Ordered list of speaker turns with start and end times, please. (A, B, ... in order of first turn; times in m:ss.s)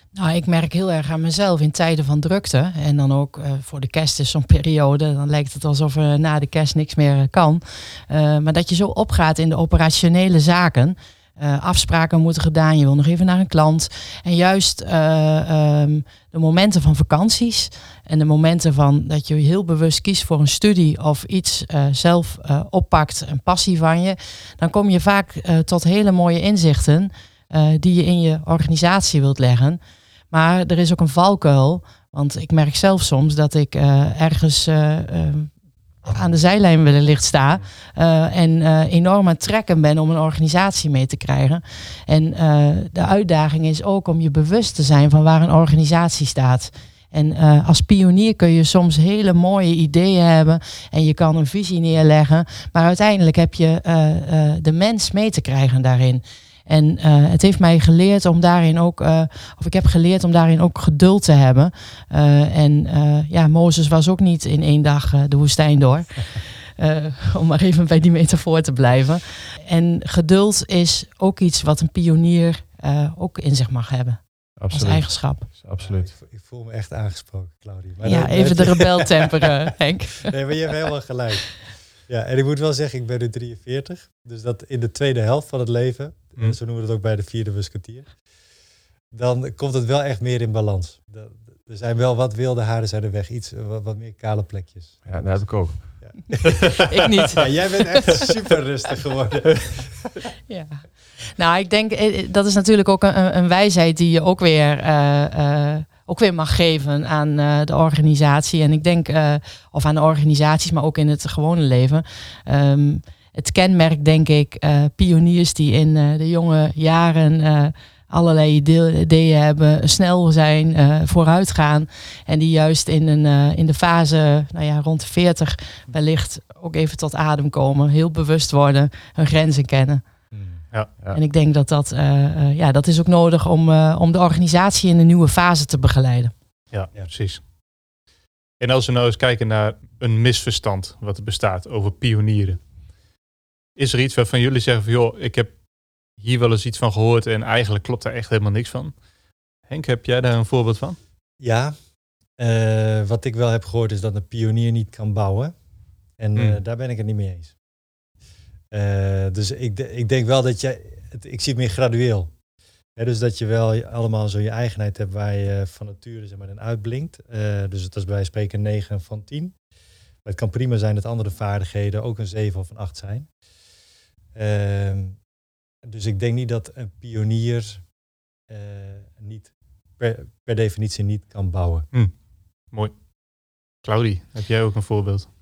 0:00.2-0:29.8 A
0:30.3-0:35.5 A
0:36.0-1:15.5 A
1:14.6-1:16.1 B
1:15.8-1:19.2 C
1:18.0-1:20.3 A
1:20.2-1:28.1 C
1:29.1-1:35.0 C
1:35.1-1:35.8 B
1:36.0-1:40.0 C
1:36.8-1:38.3 A
1:40.5-2:10.0 A
2:10.3-2:10.6 C
2:11.1-2:16.3 A
2:16.7-2:17.4 D
2:18.6-2:22.6 D
2:23.8-2:25.6 D
2:26.2-2:29.0 D
2:29.7-2:31.0 D
2:31.4-2:31.8 C
2:32.4-2:35.5 C
2:36.2-2:37.5 C
2:38.7-2:42.3 C
2:43.0-2:49.6 C
2:50.2-2:53.3 C
2:54.4-2:55.2 C
2:55.8-2:57.8 C
2:58.5-3:01.9 C
3:03.8-3:05.3 D